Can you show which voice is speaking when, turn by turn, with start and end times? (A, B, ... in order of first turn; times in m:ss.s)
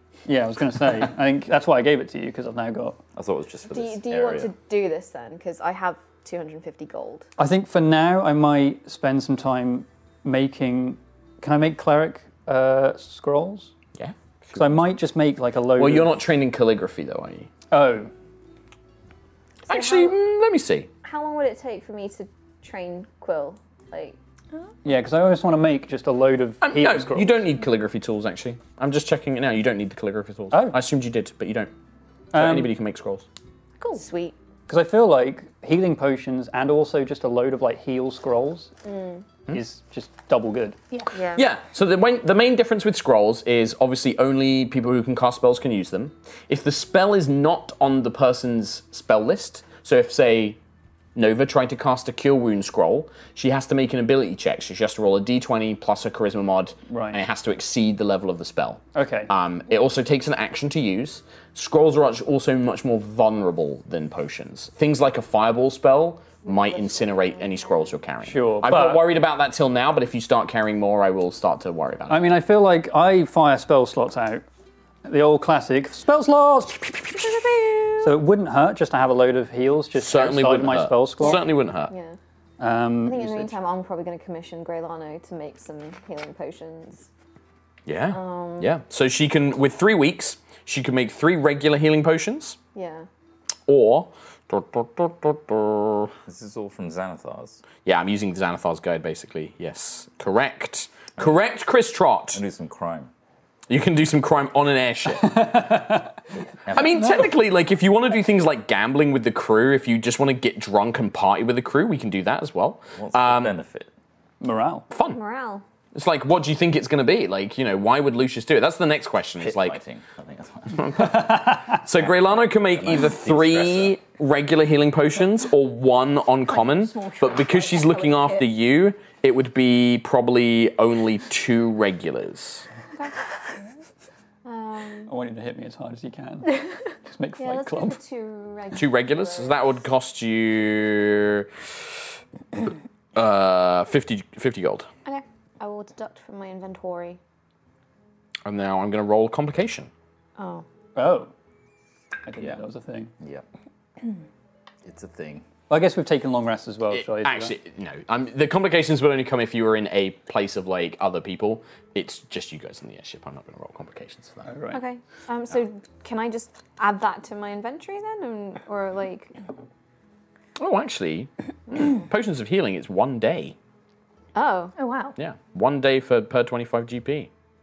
0:00.3-0:03.0 A
0:03.2-0:04.5 B
0:03.7-0:07.3 C
0:07.4-0:13.7 A
0:14.0-0:14.8 D
0:14.5-0:16.1 A
0:15.8-0:17.5 D
0:17.7-0:18.1 A
0:19.7-0:20.9 D
0:19.7-0:20.2 C
0:21.0-0:24.2 C
0:24.8-0:27.4 A
0:26.6-0:31.7 D
0:30.5-0:30.8 A
0:32.3-0:32.7 A
0:32.3-0:33.3 D
0:33.9-0:34.4 C
0:34.7-0:38.7 A
0:38.9-0:39.2 C
0:39.5-0:40.8 A
0:41.1-0:41.5 C
0:41.4-0:50.6 D
0:51.2-1:12.2 D
0:56.9-0:57.2 A
0:59.0-0:59.3 A
1:06.4-1:07.7 C
1:08.2-1:09.0 A
1:12.1-1:14.4 A
1:15.0-1:21.4 A
1:17.4-1:18.0 C
1:20.0-1:21.9 D
1:21.2-1:22.2 C
1:22.6-1:23.5 A
1:23.0-1:27.1 C
1:27.9-1:32.6 D
1:28.1-1:28.7 C
1:32.8-1:33.1 C
1:33.7-1:36.1 D
1:36.3-1:37.6 B
1:37.8-1:42.4 D
1:42.3-1:43.1 B
1:43.7-1:45.5 D
1:45.2-1:46.1 A
1:46.6-1:47.1 B
1:46.7-1:53.6 D
1:47.0-1:47.3 A
1:53.0-1:53.9 B
1:54.4-1:54.9 A
1:54.9-1:55.2 D
1:55.1-1:55.6 C
1:56.0-1:59.8 D
1:59.4-2:01.1 B
2:00.7-2:12.7 D
2:01.0-2:01.8 A
2:01.9-2:04.0 B
2:06.5-2:08.4 E
2:14.4-2:15.1 C
2:15.1-2:18.0 A
2:17.4-2:19.6 C
2:18.7-2:21.9 D
2:23.2-2:24.9 D
2:25.1-2:27.2 C
2:28.4-2:29.9 D
2:30.4-2:30.7 C
2:31.0-2:31.3 A
2:32.3-2:33.1 A
2:33.2-2:33.4 B
2:34.8-2:35.4 B
2:35.7-2:37.6 A
2:36.9-2:44.5 D
2:44.4-2:44.8 A
2:44.7-2:49.4 C
2:50.6-2:53.6 D
2:54.4-2:54.8 C
2:54.8-2:55.2 E
2:55.2-2:57.3 D